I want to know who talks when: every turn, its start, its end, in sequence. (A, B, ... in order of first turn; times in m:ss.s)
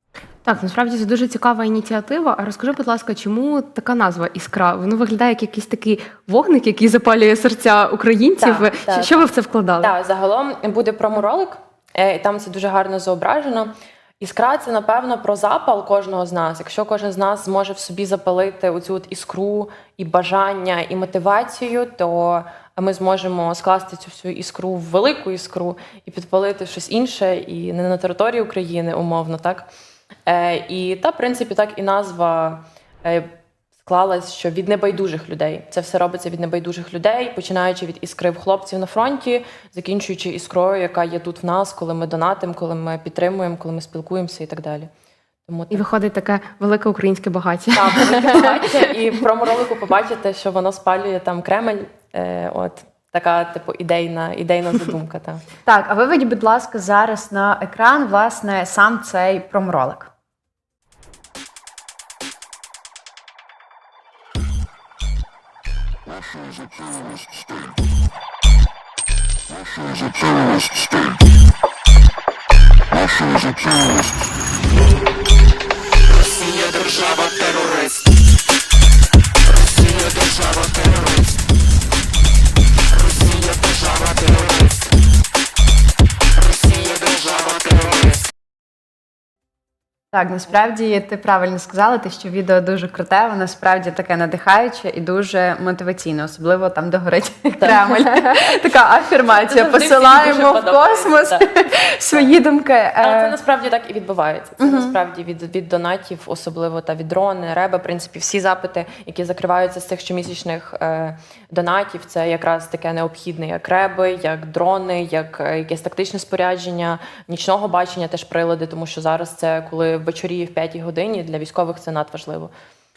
0:00.4-0:09.9 A
0:08.4-0:09.2 B
0:09.8-0:29.7 B
0:30.3-0:33.3 B
0:33.8-0:44.9 B
0:45.5-0:45.8 B
0:45.7-0:48.7 A
0:47.7-0:55.4 B
0:55.6-1:00.1 C
1:30.1-1:43.4 C
1:37.6-1:38.5 B
1:39.3-1:41.5 B
1:43.0-2:02.5 B
1:44.6-1:44.9 C